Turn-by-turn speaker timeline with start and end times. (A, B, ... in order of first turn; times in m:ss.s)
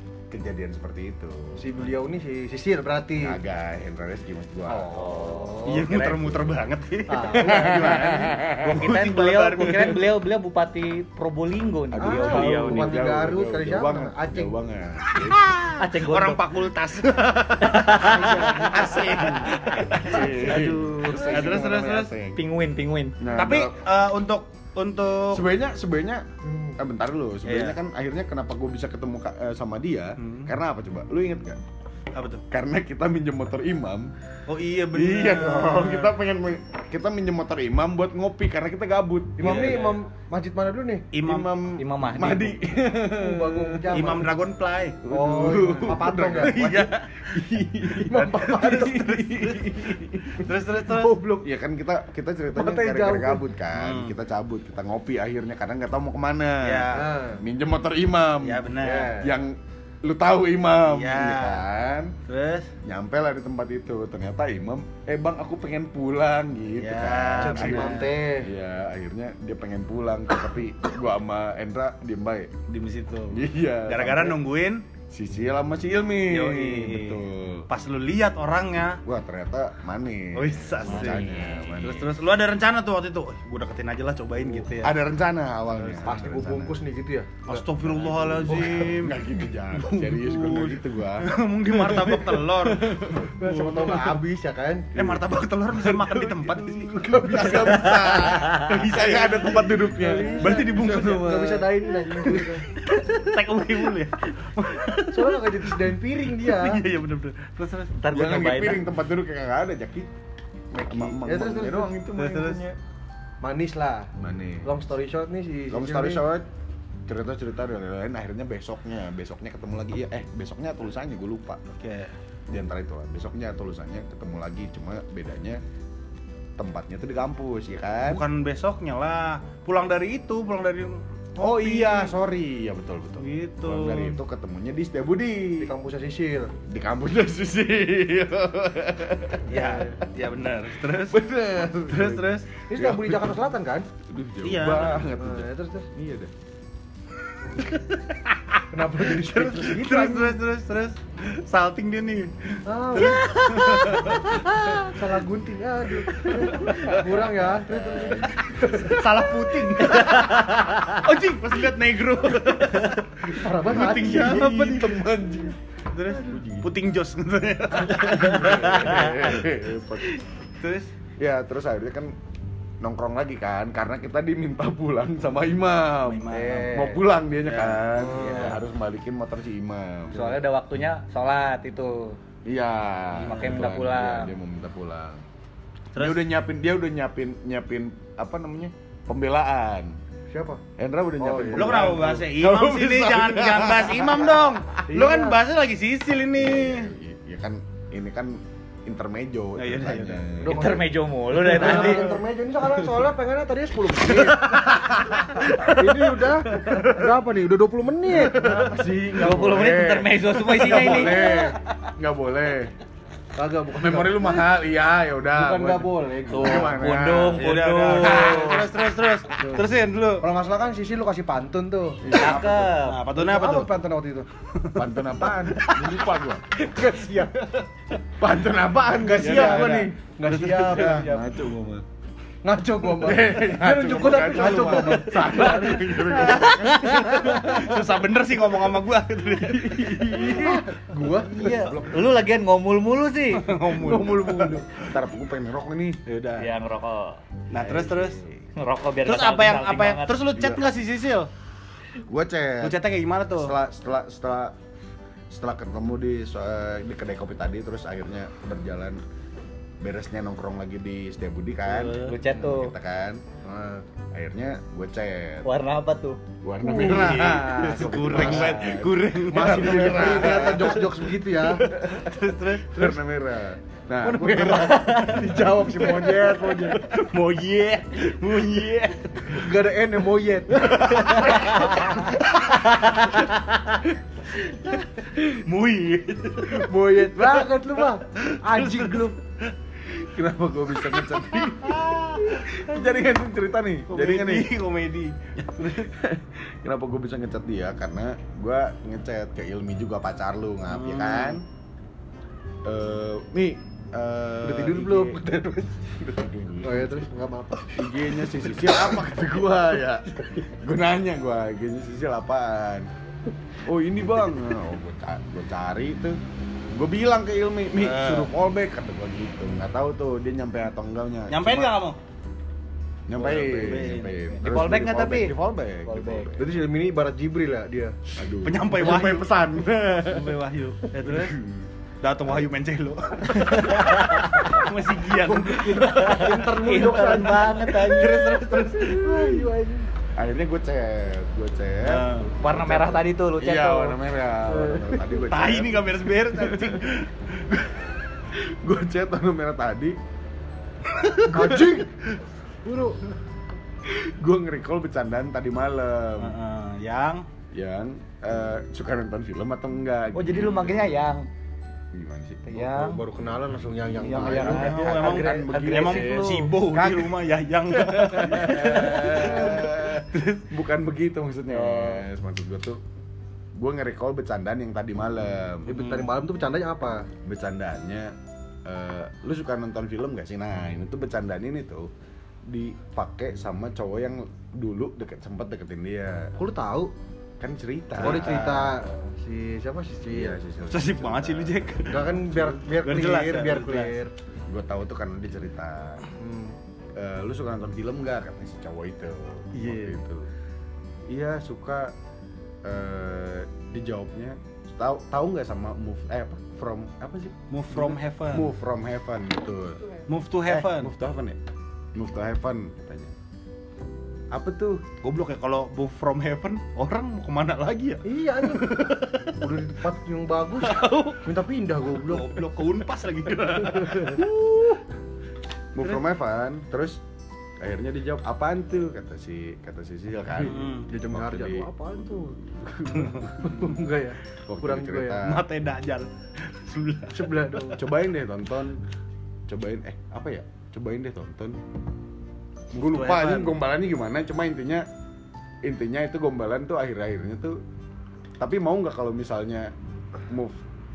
0:00.3-0:01.9 A
0:01.6-0:03.4 B
0:03.2-0:04.9 A
0:04.7-0:05.8 B
0:04.9-0:06.2 C
0:05.6-0:10.0 D
0:07.1-0:08.4 B
0:07.3-0:08.9 A
0:08.5-0:13.1 C
0:11.9-0:15.4 A
0:12.0-0:14.5 B
0:15.1-0:22.1 D
0:15.8-0:16.4 C
0:17.6-0:18.7 C
0:18.0-0:19.1 B
0:18.1-0:22.4 A
0:20.1-0:21.6 B
0:20.2-0:21.2 C
0:22.3-0:23.2 C
0:23.2-0:23.8 A
0:23.3-0:25.4 D
0:25.3-0:26.2 A
0:26.4-0:26.8 B
0:26.8-0:31.6 A
0:27.4-0:27.8 D
0:30.2-0:30.5 D
0:32.1-0:32.4 D
0:32.5-0:34.1 A
0:34.5-0:36.2 D
0:34.9-0:39.9 A
0:39.4-0:41.1 B
0:39.4-0:40.0 D
0:41.1-0:41.5 D
0:41.2-0:44.3 A
0:41.8-0:42.6 C
0:43.0-0:44.3 B
0:43.9-0:45.0 D
0:45.0-0:50.5 A
0:45.0-0:46.8 B
0:46.3-0:51.2 D
0:48.0-0:49.2 B
0:50.8-0:51.4 B
0:51.2-1:02.1 A
0:52.5-0:53.4 B
0:53.7-0:54.2 D
0:56.6-0:57.1 D
0:56.9-0:57.4 B
0:58.4-0:59.1 D
0:58.8-0:59.3 B
1:00.8-1:01.6 D
1:02.3-1:02.7 D
1:02.8-1:12.5 A
1:06.8-1:08.1 D
1:07.4-1:08.5 B
1:12.7-1:14.8 D
1:13.3-1:14.4 A
1:15.1-1:17.7 A
1:16.3-1:19.0 D
1:19.0-1:22.1 A
1:20.3-1:25.0 D
1:20.9-1:21.2 C
1:24.6-1:26.8 A
1:25.7-1:26.2 D
1:26.0-1:27.6 B
1:27.4-1:29.2 D
1:27.8-1:34.2 A
1:29.7-1:34.1 D
1:33.4-1:34.9 B
1:34.9-1:39.7 D
1:35.7-1:40.6 A
1:37.0-1:38.0 B
1:39.7-1:42.6 B
1:40.4-1:47.9 D
1:45.1-1:46.8 B
1:48.0-1:48.8 C
1:48.1-1:50.1 A
1:50.7-1:52.0 B
1:50.8-1:52.8 A
1:52.1-1:52.6 D
1:53.4-1:54.1 B
1:54.2-1:54.7 A
1:54.6-1:56.2 B
1:55.7-1:56.4 A
1:57.1-2:01.6 A
2:01.8-2:02.1 D
2:02.5-2:05.6 A
2:06.6-2:08.2 A
2:08.0-2:12.1 D
2:11.4-2:15.7 A
2:13.2-2:14.2 D
2:15.6-2:16.5 B
2:16.7-2:19.6 A
2:19.5-2:21.2 D
2:19.5-2:20.0 B
2:21.1-2:23.4 A
2:21.8-2:22.5 D
2:22.7-2:23.9 B
2:24.1-2:26.3 A
2:24.4-2:25.0 D
2:25.2-2:25.9 B
2:27.6-2:34.8 D
2:28.7-2:30.4 B
2:32.6-2:34.1 B
2:33.0-2:34.5 C
2:34.7-2:40.0 B
2:36.1-2:37.2 D
2:38.8-2:45.0 D
2:39.9-2:41.0 C
2:43.3-2:44.5 B
2:43.7-2:45.6 A
2:45.9-2:49.2 D
2:46.1-2:46.7 A
2:47.7-2:50.2 A
2:50.6-2:50.9 D
2:51.2-2:52.1 A
2:52.8-3:00.4 A
2:56.0-2:58.6 D
2:56.3-2:57.0 B
2:58.0-2:58.5 B
3:00.1-3:02.2 C
3:02.4-3:05.2 A
3:03.2-3:04.3 C
3:03.2-3:03.7 D
3:05.9-3:06.3 D
3:06.0-3:10.0 A
3:10.3-3:10.6 B
3:10.8-3:14.6 A
3:11.2-3:12.0 B
3:11.5-3:16.9 D
3:14.9-3:15.4 B
3:16.4-3:20.6 A
3:19.6-3:20.2 D
3:20.4-3:29.5 B
3:20.5-3:22.1 C
3:21.6-3:22.0 D
3:24.0-3:27.0 D
3:28.1-3:28.7 D
3:28.4-3:32.7 A
3:29.1-3:31.4 C
3:30.7-3:31.6 B
3:33.4-3:34.5 B
3:33.7-3:37.5 A
3:35.3-3:36.9 B
3:36.3-3:38.7 C
3:37.4-3:40.2 D
3:38.0-3:38.7 A
3:39.4-3:39.6 B
3:40.2-3:42.1 B
3:42.0-3:42.7 A
3:42.2-3:43.0 C
3:42.9-3:43.7 D
3:43.1-3:44.3 B
3:44.6-3:46.0 D
3:44.7-3:46.4 A
3:46.5-3:47.7 B
3:48.2-3:51.8 A
3:48.9-3:51.3 B
3:49.3-3:49.7 D
3:50.3-3:51.1 D
3:52.4-3:55.9 B
3:53.0-3:57.6 A
3:54.7-4:00.4 D
3:59.4-4:02.2 A
4:00.2-4:01.7 B
4:01.3-4:03.4 C
4:03.3-4:04.9 D
4:03.7-4:06.0 A
4:06.0-4:06.5 D
4:06.4-4:07.2 C
4:07.5-4:08.2 D
4:07.5-4:08.4 A
4:08.6-4:10.3 C
4:09.0-4:11.3 D
4:10.3-4:10.6 A
4:12.0-4:12.8 A
4:12.6-4:13.5 D
4:13.3-4:14.5 A
4:15.3-4:19.0 A
4:19.8-4:23.2 A
4:21.7-4:22.1 D
4:21.9-4:22.7 C
4:23.4-4:23.8 B
4:24.1-4:25.5 A
4:25.4-4:26.2 C
4:26.4-4:31.0 A
4:26.7-4:27.5 B
4:26.7-4:30.9 D
4:27.2-4:28.7 C
4:29.3-4:31.7 B
4:31.4-4:32.9 D
4:32.7-4:35.2 A
4:34.0-4:36.8 B
4:34.7-4:35.2 C
4:36.0-4:39.4 D
4:39.3-4:42.1 B
4:40.6-4:41.7 D
4:41.4-4:42.0 C
4:42.6-4:43.7 C
4:44.5-4:47.3 D
4:46.5-4:49.2 B
4:48.2-4:49.1 D
4:49.9-4:54.5 A
4:51.0-4:52.5 D
4:53.9-4:55.8 D
4:55.6-5:01.4 A
5:00.7-5:01.4 D
5:02.6-5:05.2 A
5:04.4-5:05.8 B
5:05.8-5:07.0 A
5:06.6-5:09.0 B
5:07.7-5:12.9 A
5:13.6-5:16.2 A
5:16.7-5:21.8 A
5:17.8-5:18.3 D
5:21.3-5:22.0 D
5:23.1-5:26.6 A
5:23.2-5:23.8 B
5:23.2-5:24.4 D
5:24.4-5:25.3 C
5:25.8-5:26.3 C
5:26.4-5:28.0 B
5:28.1-5:30.3 A
5:28.4-5:29.3 D
5:30.0-5:31.4 D
5:31.0-5:31.7 A
5:32.0-5:36.4 D
5:33.5-5:34.6 C
5:35.2-5:38.0 B
5:35.7-5:38.7 C
5:37.0-5:39.4 D
5:38.8-5:39.9 B
5:40.1-5:46.8 A
5:41.8-5:42.3 D
5:42.4-5:44.0 C
5:44.5-5:45.2 B
5:45.3-5:47.7 D
5:48.3-5:50.0 A
5:50.9-5:51.5 D
5:51.3-5:51.9 B
5:52.6-5:53.0 B
5:53.8-5:56.4 A
5:56.2-5:57.2 D
5:57.5-6:01.1 A
6:00.1-6:01.3 C
6:01.9-6:03.0 A
6:02.5-6:03.0 C
6:02.8-6:05.0 B
6:04.0-6:06.5 C
6:04.0-6:07.2 A
6:04.3-6:10.5 D
6:07.7-6:12.8 A
6:08.5-6:09.6 B
6:08.6-6:09.2 C
6:11.5-6:12.0 C
6:13.5-6:15.9 A
6:15.6-6:17.1 B
6:15.7-6:16.1 D
6:17.2-6:18.1 A
6:18.6-6:21.9 A
6:22.5-6:26.3 A
6:26.4-6:26.9 B
6:27.4-6:28.7 A
6:28.0-6:28.5 D
6:28.0-6:30.4 B
6:30.1-6:32.6 A
6:30.7-6:32.1 D
6:31.9-6:34.1 B
6:32.8-6:34.0 D
6:34.5-6:36.0 A
6:36.2-6:36.6 B
6:37.0-6:40.3 A
6:39.5-6:40.0 B
6:41.1-6:41.9 A
6:42.6-6:49.9 A
6:47.5-6:48.5 D
6:50.1-6:50.9 D
6:50.5-6:51.4 A
6:51.9-6:53.1 A
6:54.3-6:54.8 A
6:55.0-6:59.4 D
6:58.0-7:02.4 B
7:00.6-7:01.2 D
7:02.0-7:04.8 D
7:03.6-7:04.2 B
7:05.7-7:07.0 A
7:07.6-7:11.7 A
7:10.4-7:10.9 D
7:10.6-7:15.2 B
7:12.6-7:13.1 A
7:13.0-7:13.3 D
7:14.4-7:15.4 A
7:15.2-7:17.8 D
7:17.1-7:17.8 B
7:17.8-7:18.8 A
7:19.5-7:21.6 A
7:22.7-7:24.8 A
7:22.7-7:23.6 D
7:25.6-7:27.6 A
7:28.4-7:29.7 A
7:30.3-7:30.6 A